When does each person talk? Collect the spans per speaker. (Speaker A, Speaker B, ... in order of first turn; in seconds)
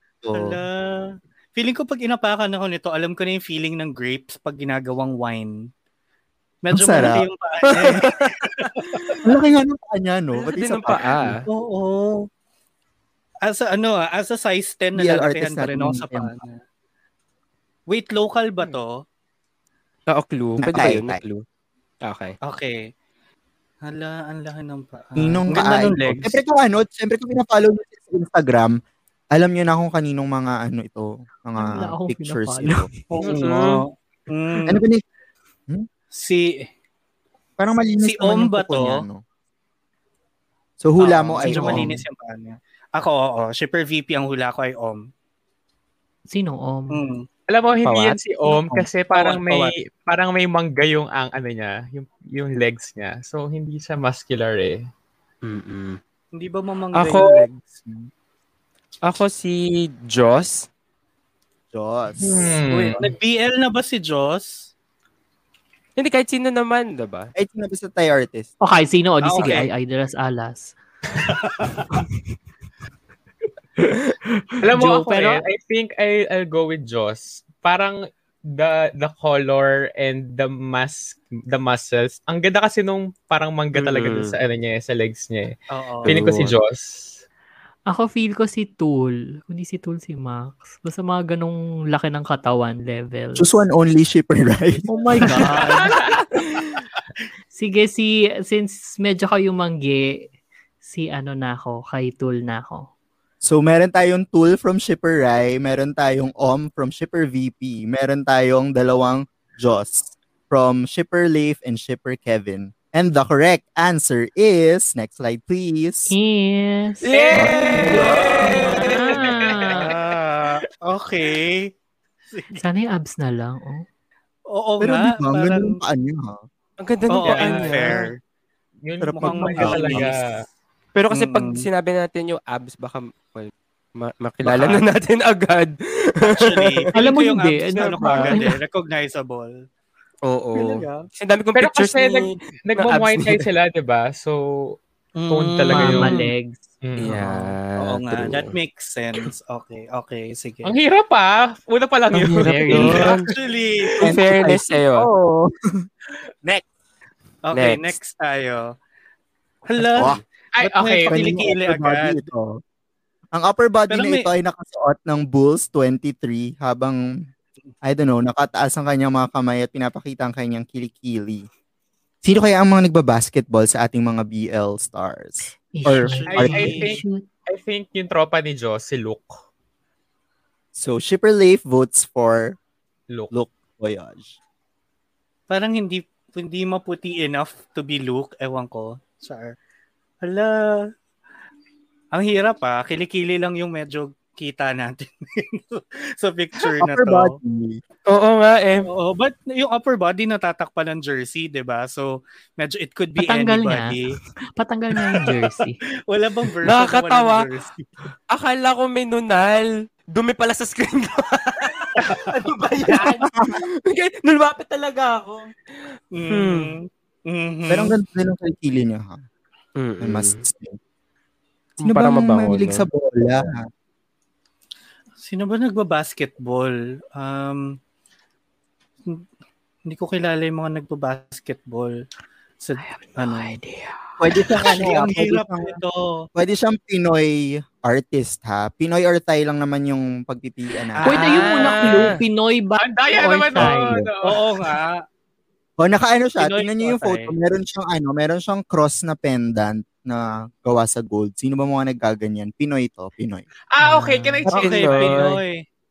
Speaker A: 0.2-0.6, 6.7-7.3, 9.2-11.4, 14.9-16.4, 20.6-21.2, 25.2-28.8, 29.3-32.9, 33.4-33.6, 34.6-35.0, 37.6-39.2, 40.8-41.9, 48.5-48.9, 61.7-63.0, 67.4-68.5, 93.4-95.8, 103.4-116.1, 117.3-118.3, 124.8-126.4, 129.0-130.1, 154.0-155.5, 159.8-160.2, 161.1-162.5, 163.3-167.0, 167.8-171.5, 172.2-176.6, 180.8-182.6, 183.3-184.3, 196.8-197.8, 213.3-213.6, 217.7-219.2, 220.0-220.8, 221.8-223.6, 234.2-235.8, 236.3-241.4, 243.6-244.1, 245.8-253.4
Speaker B: 0.3-5.7, 6.6-9.2, 11.5-12.3, 13.4-16.6, 17.9-19.0, 22.4-22.9, 23.9-26.4, 33.1-34.8, 36.1-36.7, 38.0-39.0, 41.0-45.1, 46.9-47.3, 49.1-49.7, 56.3-57.8, 62.7-64.7, 69.2-69.7, 71.2-71.9, 85.7-86.2, 95.5-95.9, 119.6-121.7, 122.3-122.6, 124.5-125.8, 127.1-128.2, 129.2-130.2, 131.1-131.7, 134.4-134.8, 136.2-139.5, 140.6-141.1, 145.2-146.3, 147.8-150.7, 152.8-154.2, 157.4-158.7, 159.7-162.2, 163.9-164.3, 176.1-176.9, 185.5-189.6, 190.2-190.9, 192.1-197.3, 198.8-204.2, 206.1-207.9, 216.1-217.9, 225.2-227.8, 229.9-231.9, 232.6-233.6, 234.6-236.2, 244.2-245.0, 246.4-247.3, 254.5-255.6
Speaker C: 7.6-9.2, 10.5-11.5, 20.1-21.4, 22.0-22.4, 33.2-33.9, 47.9-48.2, 55.4-56.0, 56.9-57.5, 59.0-60.7, 66.0-67.3, 83.7-84.4, 86.0-86.5, 117.0-119.3, 126.8-128.1, 130.9-136.9, 137.8-138.4, 140.2-143.4, 147.0-148.6, 152.1-153.3, 154.0-155.1, 157.5-157.9, 198.1-198.9, 206.6-207.5, 208.3-215.5, 216.3-216.8, 219.8-220.4, 221.8-222.9, 241.1-242.2, 254.5-255.4
Speaker D: 31.6-32.9, 46.3-47.0, 68.6-70.8, 74.5-75.4, 87.9-93.6, 94.9-95.8, 97.5-100.3, 100.8-102.9, 116.1-117.1, 118.4-119.9, 122.6-123.8, 136.9-138.4, 145.7-146.6, 152.2-153.1, 175.7-177.2, 203.2-204.0, 204.6-205.8, 232.9-233.8, 241.1-243.9, 253.8-254.5
Speaker E: 47.5-54.9, 62.2-63.0, 74.6-78.0, 78.5-85.5, 86.1-87.2, 95.8-96.2, 117.1-120.6, 127.2-128.0, 128.8-130.3, 141.6-144.8, 145.3-146.2, 146.8-147.5, 150.6-153.1, 160.6-161.4, 176.3-179.4, 242.8-244.8, 253.7-255.1